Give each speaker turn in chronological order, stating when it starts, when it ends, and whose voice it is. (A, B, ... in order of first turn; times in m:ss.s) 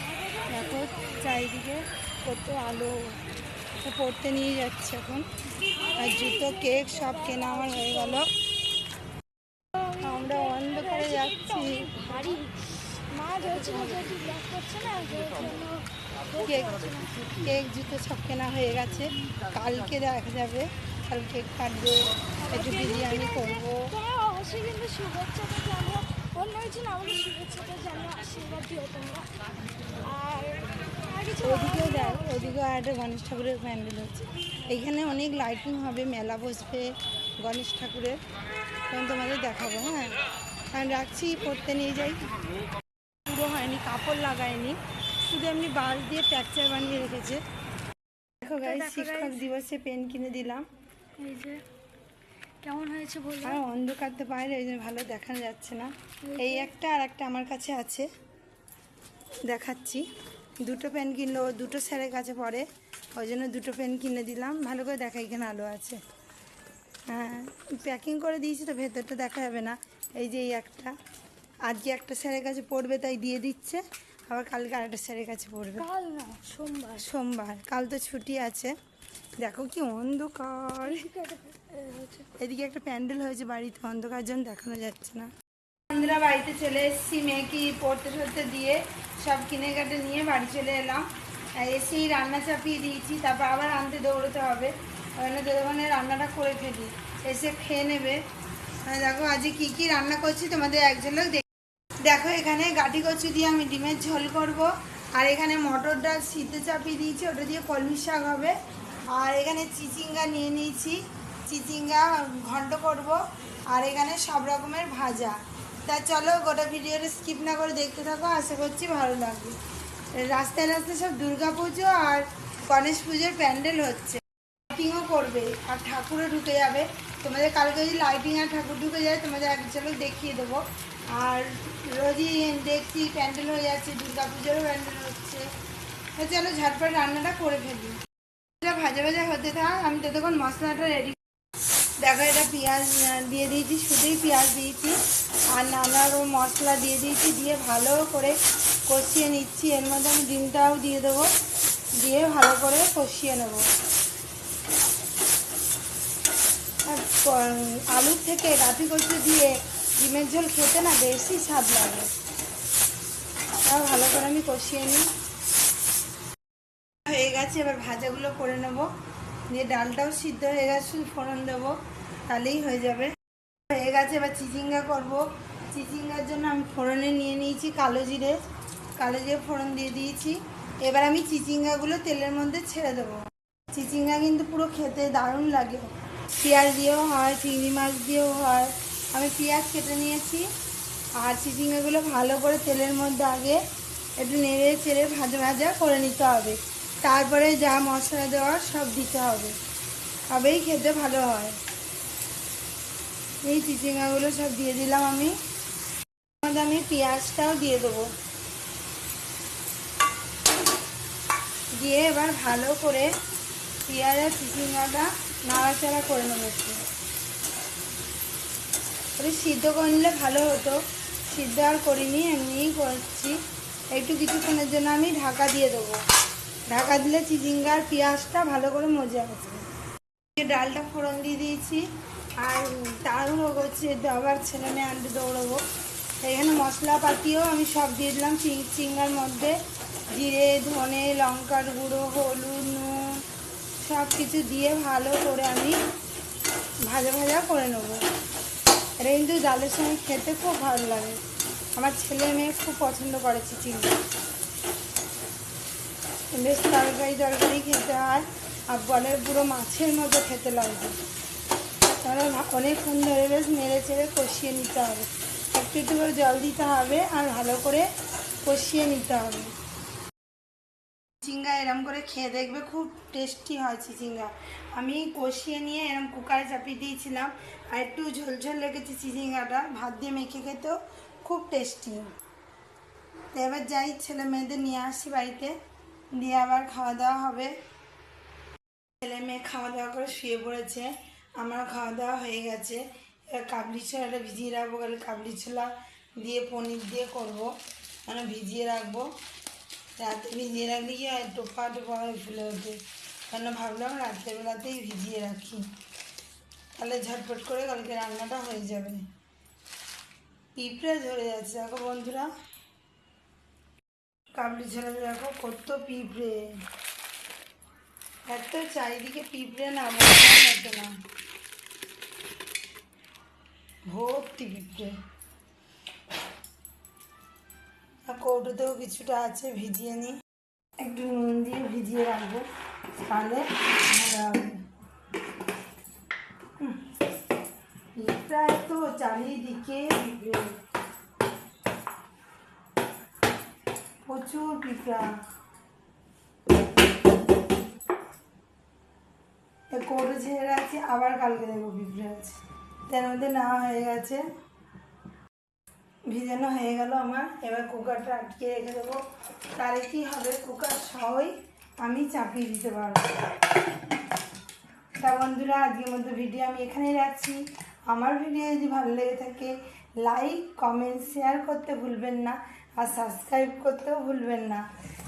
0:00.3-0:01.2 A
0:00.5-0:03.2 B
0:03.8-0:05.3 B
0:05.8-0:08.2 A
0:05.9-0:08.3 B
0:09.7-0:17.2 A
0:10.0-0:11.9 B
0:16.4-0:23.9 B
0:22.4-0:29.3 A
0:30.0-0:32.6 A
0:31.4-0:38.2 B
0:38.9-0:40.2 B
0:40.7-0:42.3 B
0:43.2-0:47.4 B
0:48.4-0:50.6 B
0:48.6-0:49.4 A
0:51.2-0:51.6 A
0:52.6-0:53.6 A
0:53.4-0:58.1 B
0:56.2-0:56.7 A
0:59.4-1:00.1 B
1:00.6-1:06.0 B
1:07.1-1:11.0 B
1:11.7-1:15.8 B
1:15.8-1:17.1 A
1:17.0-1:18.7 B
1:19.4-1:21.0 B
1:20.8-1:22.3 A
1:22.4-1:25.3 B
1:25.9-1:38.2 B
1:38.8-1:41.4 B
1:42.0-1:48.6 B
1:49.1-1:59.6 B
2:00.1-2:15.5 B
2:16.2-2:18.0 B
2:18.6-2:21.2 B
2:22.0-2:25.0 B
2:25.5-2:28.4 B
2:28.9-2:31.3 B
2:32.0-2:33.7 B
2:36.8-2:42.1 B
2:43.6-2:45.1 B
2:47.0-2:48.9 B
2:49.5-2:53.1 B
2:53.7-2:58.4 B
2:59.0-3:10.5 B
3:11.2-3:13.6 B
3:14.2-3:19.6 B
3:20.3-3:21.6 B
3:23.4-3:25.4 B
3:26.4-3:28.1 B
3:31.7-3:33.1 B
3:33.9-3:36.8 B
3:39.2-3:43.4 B
3:43.9-3:46.0 B
3:46.7-3:49.6 B
3:50.4-3:51.9 B
3:52.4-3:55.6 B
3:56.2-3:59.6 B
4:00.1-4:03.2 B
4:03.8-4:05.8 B
4:06.8-4:08.0 B
4:09.0-4:11.2 B
4:11.8-4:14.0 B
4:16.3-4:21.0 B
4:21.8-4:27.9 B
4:28.4-4:29.5 B
4:31.2-4:42.1 B
4:43.3-4:45.5 B
4:46.1-4:47.5 B
4:49.0-4:57.5 B
4:58.0-4:59.1 B
5:00.0-5:02.8 B
5:03.3-5:05.7 B
5:06.7-5:09.1 B
5:10.6-5:12.3 B
5:14.3-5:16.6 B
5:18.3-5:20.9 B
5:23.9-5:25.0 B
5:28.0-5:30.2 B
5:30.8-5:32.5 B
5:33.1-5:34.6 B
5:36.6-5:36.8 B
5:37.9-5:40.6 B
5:44.0-5:45.1 B
5:49.7-5:52.4 B
5:52.9-5:54.2 B
5:56.1-5:59.0 B
5:59.6-6:03.0 B
6:05.0-6:14.6 B